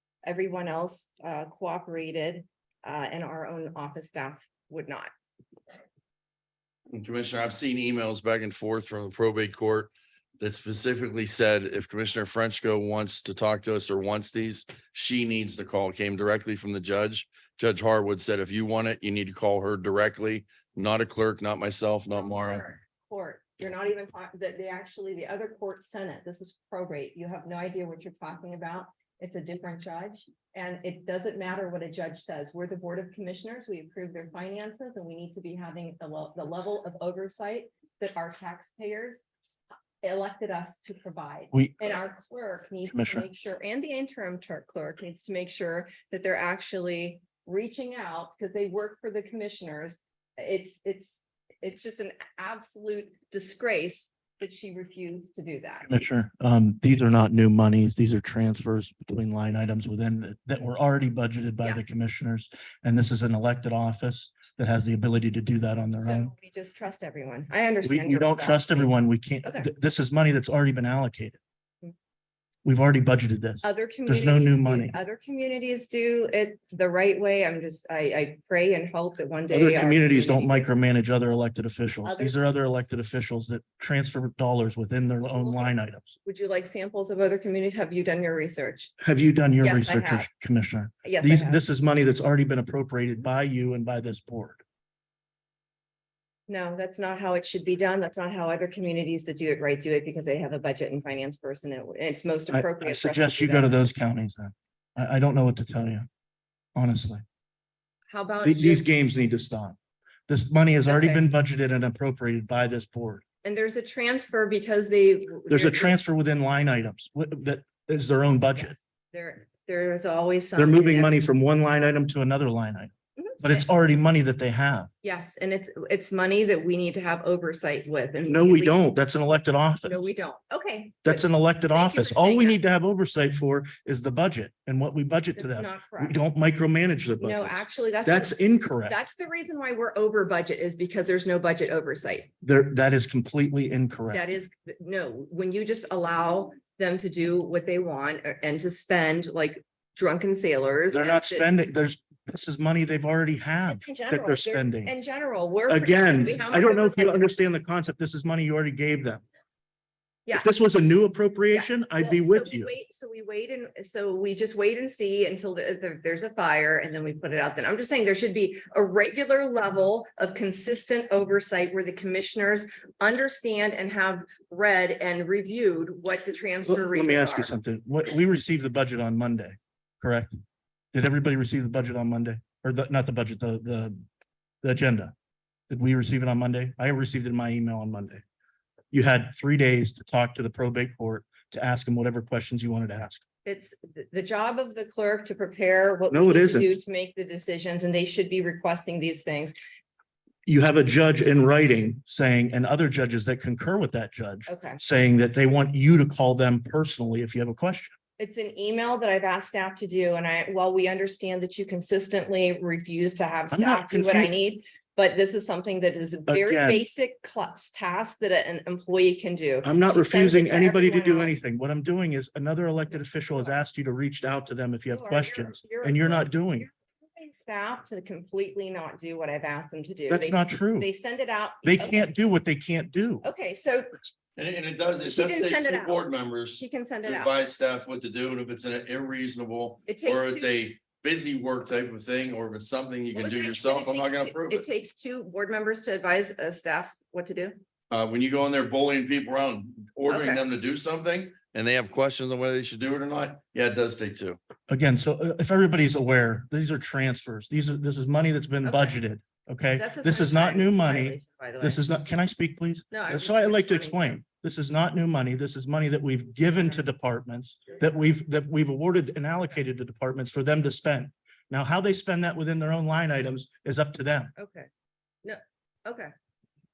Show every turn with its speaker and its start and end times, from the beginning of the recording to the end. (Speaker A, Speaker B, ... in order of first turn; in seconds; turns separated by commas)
Speaker A: 0.2-5.1, Speaker B: 6.9-22.6, Speaker A: 22.1-39.2, Speaker A: 40.0-55.9, Speaker C: 41.5-42.0, Speaker C: 42.9-43.2, Speaker C: 55.9-66.3, Speaker A: 66.0-69.7, Speaker C: 67.8-71.4, Speaker C: 72.6-75.0, Speaker A: 73.6-80.7, Speaker C: 79.5-86.2, Speaker A: 82.0-82.4, Speaker A: 85.0-85.7, Speaker A: 86.2-88.9, Speaker C: 89.0-94.6, Speaker A: 89.6-90.3, Speaker A: 91.0-91.6, Speaker A: 96.5-103.9, Speaker C: 102.5-106.1, Speaker C: 106.8-107.2, Speaker A: 108.1-108.9, Speaker C: 108.4-109.8, Speaker C: 110.3-113.2, Speaker A: 110.9-111.2, Speaker A: 113.4-116.0, Speaker C: 115.5-118.8, Speaker A: 118.5-121.2, Speaker C: 120.5-124.9, Speaker A: 123.2-123.7, Speaker A: 125.0-128.8, Speaker C: 128.3-130.0, Speaker A: 129.9-132.6, Speaker C: 131.1-139.0, Speaker A: 135.4-136.2, Speaker A: 137.2-142.3, Speaker C: 142.4-144.2, Speaker A: 144.1-151.5, Speaker C: 150.9-154.9, Speaker A: 153.7-157.3, Speaker C: 155.7-159.2, Speaker C: 160.3-162.7, Speaker A: 161.5-177.6, Speaker C: 176.7-180.3, Speaker C: 180.9-184.0, Speaker C: 184.6-185.1, Speaker C: 185.7-188.2, Speaker C: 188.9-193.2, Speaker A: 193.4-199.6, Speaker C: 196.1-196.8, Speaker C: 200.5-207.9, Speaker A: 204.5-204.8, Speaker A: 208.2-221.3, Speaker C: 213.5-214.3, Speaker C: 216.3-216.8, Speaker C: 219.6-226.7, Speaker A: 224.9-232.1, Speaker C: 230.1-230.9, Speaker C: 231.6-233.3, Speaker A: 233.2-233.9, Speaker B: 234.4-244.7, Speaker A: 235.0-237.3, Speaker A: 239.9-240.5, Speaker A: 243.1-247.6, Speaker B: 247.9-254.4, Speaker A: 250.1-250.4, Speaker C: 254.7-274.3, Speaker A: 258.6-259.0, Speaker A: 259.8-261.8, Speaker A: 262.9-264.2, Speaker A: 274.4-274.7, Speaker A: 275.2-276.1